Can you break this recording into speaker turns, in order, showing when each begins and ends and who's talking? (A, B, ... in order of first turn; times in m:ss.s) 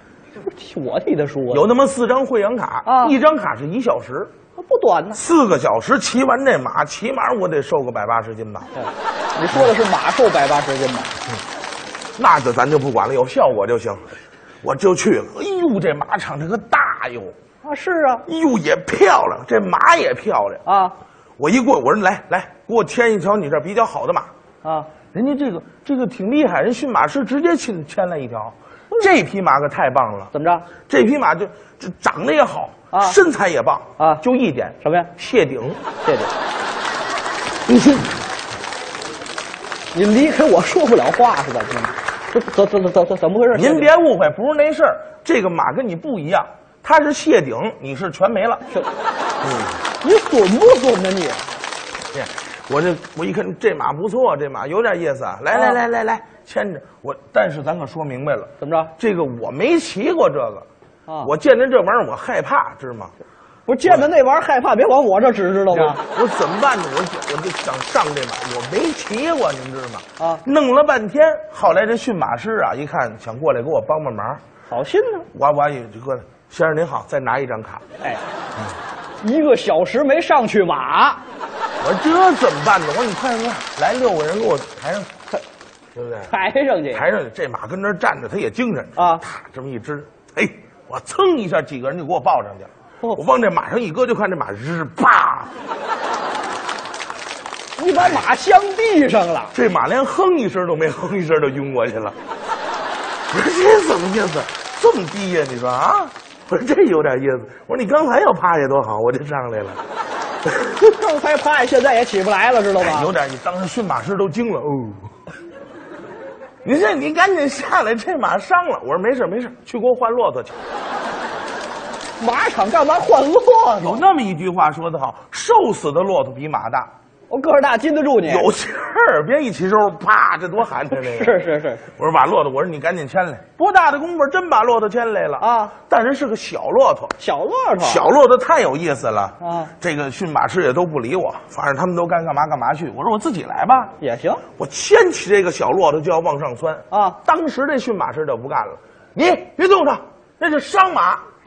0:00.4-0:01.7 A
0:01.5-0:04.3 B
0:02.8-0:03.2 A
0:04.6-0:05.2 A
0:05.1-0:08.7 B
0:08.8-0:11.2 A
0:12.2-0:14.1 B
0:14.6-0:17.4 B
0:17.6-0:18.3 A
0:18.3-0:20.6 B
0:20.6-0:21.0 A
0:21.4-0:24.3 B
0:24.6-0:24.9 A
0:25.1-0:30.3 B
0:30.3-0:30.7 A
0:30.9-0:35.8 B
0:32.9-0:33.2 A
0:34.0-0:34.2 A
0:34.8-0:35.1 A
0:36.0-0:36.3 A
0:37.7-0:38.1 B
0:39.9-0:43.9 A
0:43.5-0:48.6 B
0:49.4-0:49.8 B
0:50.0-0:51.6 A
0:52.1-1:00.7 B
0:55.5-0:55.8 A
0:58.6-0:58.9 A
1:01.2-1:03.1 B
1:03.7-1:06.0 A
1:03.8-1:04.1 B
1:05.7-1:14.4 B
1:10.2-1:10.4 A
1:14.7-1:15.3 A
1:15.3-1:17.8 B
1:19.2-1:21.2 A
1:21.8-1:25.1 B
1:26.0-1:26.3 B
1:26.3-1:27.0 A
1:26.9-1:35.5 B
1:29.0-1:29.2 A
1:37.8-1:39.5 A
1:39.5-1:42.2 B
1:43.3-1:49.8 B
1:50.9-1:53.1 A
1:52.8-1:55.1 B
1:56.6-2:00.6 B
2:02.2-2:04.0 A
2:03.8-2:06.9 B
2:07.3-2:08.5 A
2:08.2-2:11.4 B
2:10.9-2:11.9 A
2:11.9-2:17.1 B
2:15.4-2:15.7 A
2:17.2-2:18.1 A
2:17.8-2:24.0 B
2:19.4-2:19.7 A
2:24.0-2:24.4 A
2:24.6-2:31.2 B
2:26.9-2:27.2 A